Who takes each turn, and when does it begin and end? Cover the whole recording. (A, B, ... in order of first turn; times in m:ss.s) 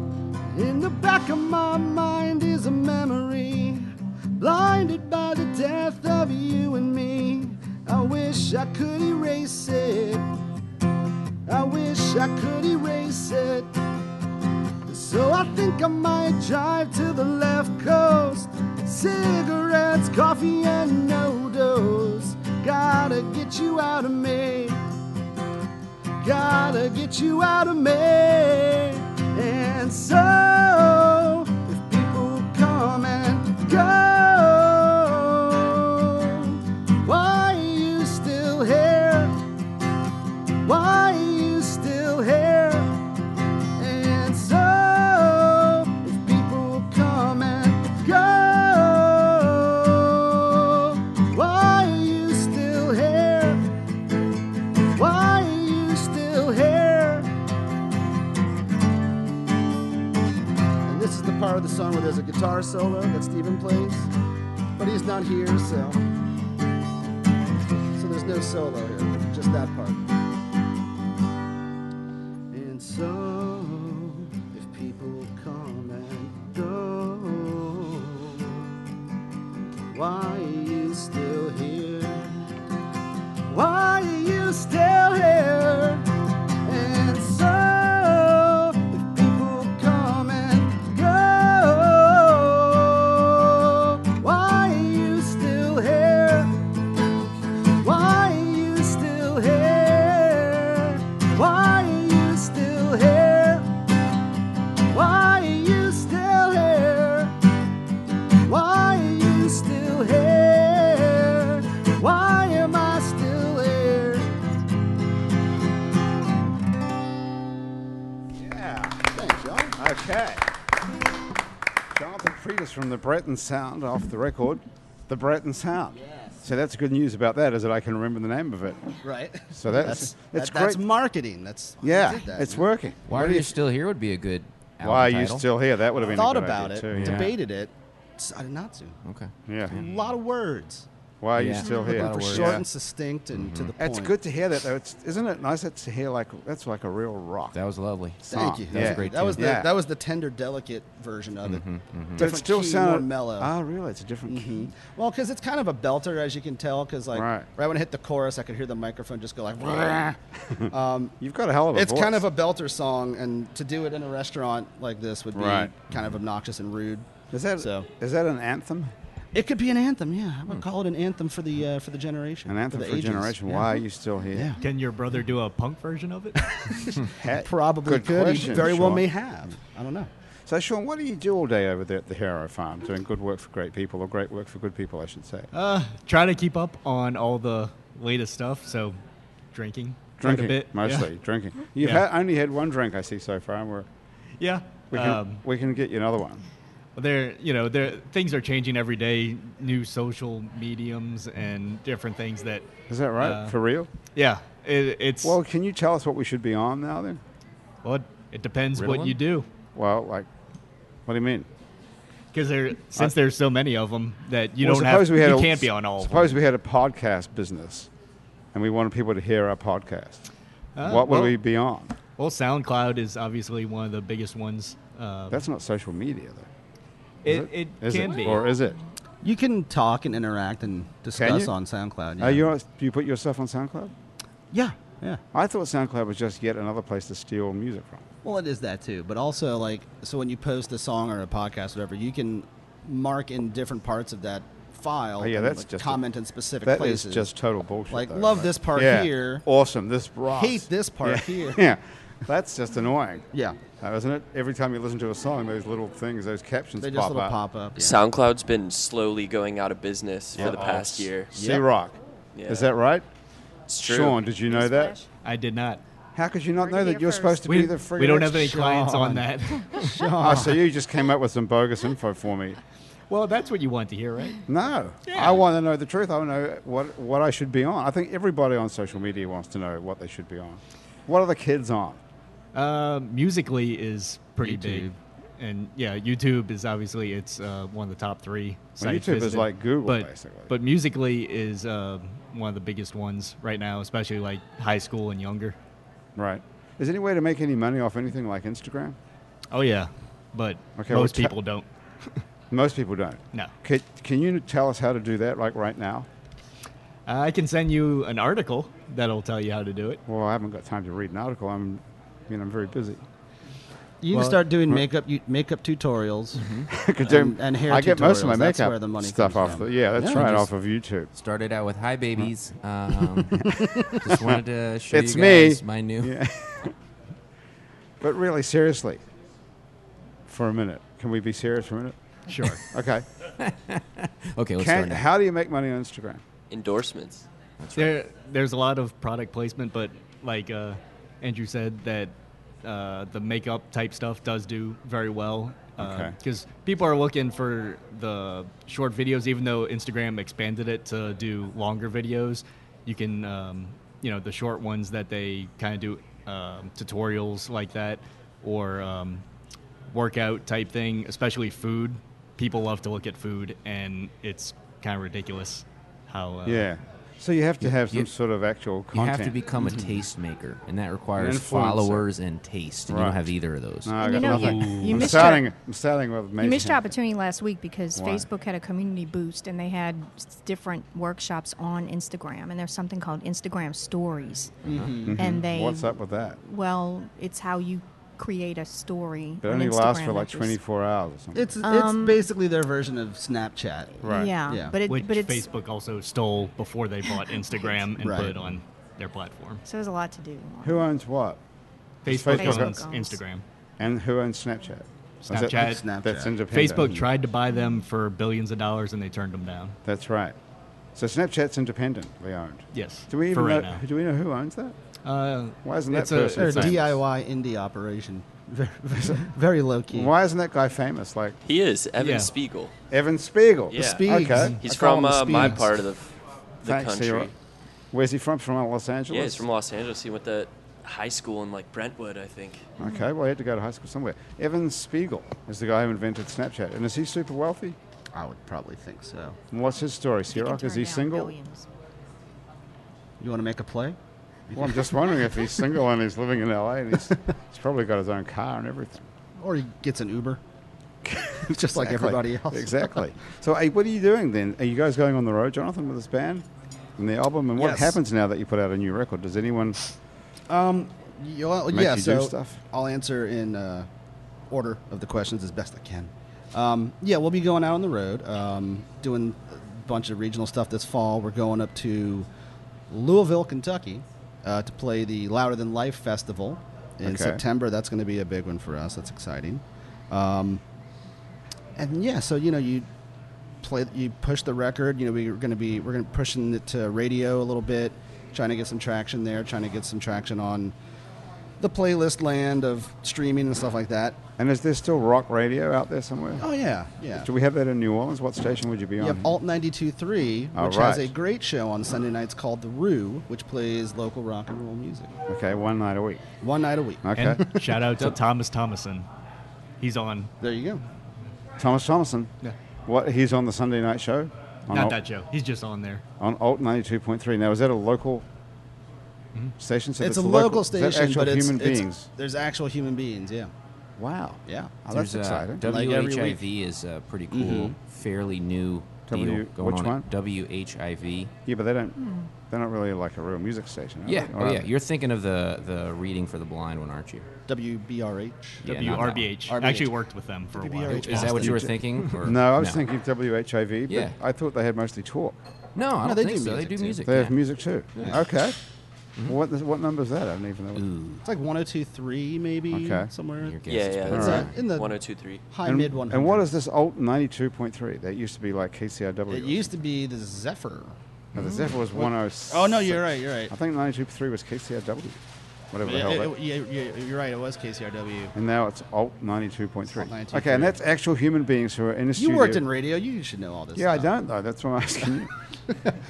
0:00.5-0:10.3 A
0:11.5-0:13.8 A
0:14.9-0:24.8 A
0:26.2-0:39.4 A
0:40.6-0:43.0 A
0:43.8-0:53.7 A
0:55.0-0:57.3 A
1:00.8-1:04.1 A
1:04.8-1:06.1 A
1:08.0-1:10.1 A
1:12.5-1:18.6 A
1:19.9-1:22.5 A
1:23.5-1:26.1 A
1:26.6-1:36.7 A
1:37.8-1:43.8 A
1:44.9-1:47.4 A
1:48.4-1:54.4 A
1:58.4-1:59.1 B
1:59.1-1:59.8 A
1:59.8-2:00.5 B
2:01.9-2:10.8 B
2:09.0-2:12.7 A
2:11.8-2:13.6 B
2:13.1-2:15.5 C
2:14.8-2:17.4 B
2:16.0-2:19.0 A
2:16.9-2:17.4 C
2:19.0-2:19.9 C
2:19.5-2:19.8 B
2:19.7-2:20.9 A
2:21.2-2:22.6 B
2:21.4-2:22.6 C
2:21.8-2:24.1 A
2:23.3-2:23.7 C
2:23.8-2:27.6 B
2:27.5-2:29.5 C
2:28.3-2:29.7 B
2:28.3-2:31.6 A
2:31.4-2:32.3 C
2:32.2-2:33.5 A
2:32.2-2:34.7 B
2:34.3-2:41.2 A
2:37.1-2:37.5 B
2:41.2-2:42.3 B
2:41.7-2:47.9 A
2:45.3-2:45.7 B
2:47.3-2:48.9 B
2:49.3-2:53.8 A
2:52.5-2:54.6 B
2:54.3-2:54.6 A
2:54.6-2:56.9 D
2:56.4-3:00.1 A
2:57.0-2:59.1 B
3:00.5-3:05.5 B
3:05.5-3:09.0 D
3:09.5-3:11.1 D
3:10.2-3:13.9 B
3:14.4-3:15.4 D
3:14.9-3:16.4 B
3:17.0-3:22.7 D
3:22.9-3:23.9 B
3:23.2-3:23.6 D
3:24.1-3:25.4 D
3:25.2-3:27.2 B
3:27.8-3:29.5 D
3:28.8-3:29.2 C
3:29.7-3:30.3 B
3:31.1-3:31.5 B
3:32.3-3:36.4 D
3:34.6-3:37.9 B
3:38.5-3:40.3 B
3:40.8-3:41.4 D
3:40.8-3:42.0 B
3:42.2-3:45.4 D
3:45.3-3:46.5 B
3:47.2-3:48.5 D
3:47.3-3:48.8 B
3:49.2-3:52.4 A
3:51.1-3:51.5 B
3:52.2-3:53.9 B
3:54.5-3:55.2 A
3:55.3-3:58.1 B
3:58.2-4:07.3 A
4:05.2-4:06.0 B
4:06.6-4:13.3 B
4:07.9-4:09.4 A
4:10.3-4:11.6 A
4:13.3-4:13.6 A
4:13.8-4:17.4 B
4:16.8-4:18.0 A
4:17.8-4:21.3 E
4:20.4-4:23.1 B
4:20.4-4:20.6 A
4:21.3-4:21.6 A
4:22.4-4:22.7 E
4:23.7-4:24.2 E
4:23.8-4:25.0 B
4:24.5-4:25.1 F
4:25.2-4:25.8 D
4:26.2-4:28.5 B
4:26.6-4:27.5 F
4:27.5-4:30.1 D
4:28.3-4:30.6 A
4:30.2-4:32.6 B
4:33.1-4:34.4 D
4:34.5-4:42.0 B
4:35.1-4:35.4 D
4:42.5-4:55.6 D
4:44.4-4:44.9 C
4:48.8-4:50.5 B
4:56.2-4:59.0 B
4:59.5-5:02.2 D
5:00.8-5:01.3 B
5:02.5-5:06.1 B
5:07.1-5:10.0 D
5:10.1-5:13.0 B
5:14.0-5:16.4 A
5:14.1-5:14.4 D
5:16.4-5:16.7 C
5:16.7-5:21.1 B
5:17.0-5:20.3 A
5:20.0-5:20.5 C
5:21.1-5:26.2 C
5:23.4-5:26.7 B
5:23.5-5:24.0 A
5:28.0-5:29.0 B
5:30.3-5:32.0 B
5:32.3-5:32.6 D
5:32.7-5:33.1 B
5:33.4-5:35.1 C
5:34.6-5:36.2 B
5:36.5-5:37.3 E
5:37.6-5:38.0 C
5:37.8-5:59.2 D
5:45.8-5:46.2 B
5:59.9-6:06.7 D
6:06.4-6:09.4 B
6:07.8-6:08.1 C
6:08.9-6:14.8 C
6:11.2-6:12.1 B
6:12.9-6:13.3 B
6:13.8-6:16.9 B
6:14.0-6:15.5 F
6:16.4-6:24.6 F
6:18.0-6:18.3 B
6:24.6-6:25.2 A
6:24.8-6:26.4 B
6:25.2-6:30.6 F
6:29.4-6:31.6 B
6:31.4-6:34.8 A
6:31.6-6:32.2 F
6:34.0-6:34.4 B
6:34.0-6:35.5 F
6:34.9-6:39.6 D
6:38.0-6:38.4 A
6:39.6-6:40.9 F
6:40.6-6:41.4 B
6:42.0-6:42.8 B
6:42.0-6:43.4 D
6:42.3-6:43.2 F
6:43.8-6:47.1 B
6:45.3-6:45.8 D
6:45.6-6:46.4 A
6:46.5-6:49.8 D
6:49.8-6:50.4 B
6:51.0-6:54.8 B
6:52.7-6:53.8 D
6:55.0-6:56.8 D
6:55.6-6:57.0 B
6:56.4-7:00.1 A
6:59.9-7:01.4 B
7:01.4-7:02.7 E
7:02.0-7:02.3 D
7:02.9-7:04.7 B
7:03.7-7:07.3 E
7:03.8-7:05.6 A
7:06.6-7:07.3 B
7:07.9-7:09.5 B
7:09.1-7:12.8 E
7:12.8-7:17.8 B
7:12.8-7:13.1 F
7:18.1-7:19.4 A
7:19.5-7:21.4 B
7:20.3-7:21.7 F
7:23.2-7:24.0 A
7:24.5-7:25.1 A
7:24.6-7:29.1 B
7:29.4-7:30.4 A
7:31.0-7:36.4 B
7:31.4-7:33.0 A
7:37.0-7:39.8 B
7:37.6-7:38.0 A
7:40.5-7:43.9 A
7:41.7-7:42.6 B
7:44.5-7:52.3 A
7:52.9-8:00.6 A
7:57.0-7:57.4 B
8:01.8-8:02.9 A
8:03.6-8:10.8 A
8:11.6-8:14.2 A
8:14.4-8:16.5 B
8:16.4-8:17.3 A
8:17.2-8:19.4 B
8:19.0-8:25.1 A
8:20.5-8:21.1 B
8:25.3-8:26.2 B
8:26.4-8:27.6 A
8:27.0-8:27.4 B
8:27.2-8:29.1 D
8:29.8-8:30.3 D
8:30.4-8:30.8 A
8:31.6-8:32.3 B
8:32.9-8:35.0 B
8:34.7-8:36.0 D
8:36.2-8:38.3 B
8:39.6-8:42.1 B
8:40.0-8:43.5 A
8:44.0-8:45.6 B
8:44.5-8:44.7 A
8:44.9-8:51.3 C
8:45.6-8:46.4 A
8:47.3-8:47.8 A
8:49.1-8:50.1 B
8:51.5-8:54.7 B
8:52.0-8:52.3 F
8:54.1-8:57.3 C
8:57.5-8:59.9 A
8:58.6-8:59.4 C
8:58.6-9:01.6 D
9:00.5-9:01.8 A
9:00.9-9:02.9 C
9:01.4-9:05.4 B
9:03.9-9:04.2 C
9:05.8-9:07.4 C
9:06.0-9:07.1 A
9:07.0-9:08.6 B
9:08.0-9:08.2 C
9:09.2-9:10.8 B
9:10.8-9:11.2 C
9:11.2-9:15.0 A
9:12.7-9:13.1 B
9:13.4-9:14.6 C
9:13.7-9:15.5 E
9:14.1-9:14.5 B
9:15.5-9:16.5 A
9:15.6-9:19.7 B
9:19.3-9:21.0 A
9:21.3-9:25.2 B
9:21.5-9:23.5 A
9:25.7-9:26.3 B
9:25.8-9:28.3 A
9:28.4-9:32.6 B
9:30.0-9:30.8 A
9:32.2-9:34.1 A
9:33.8-9:35.3 B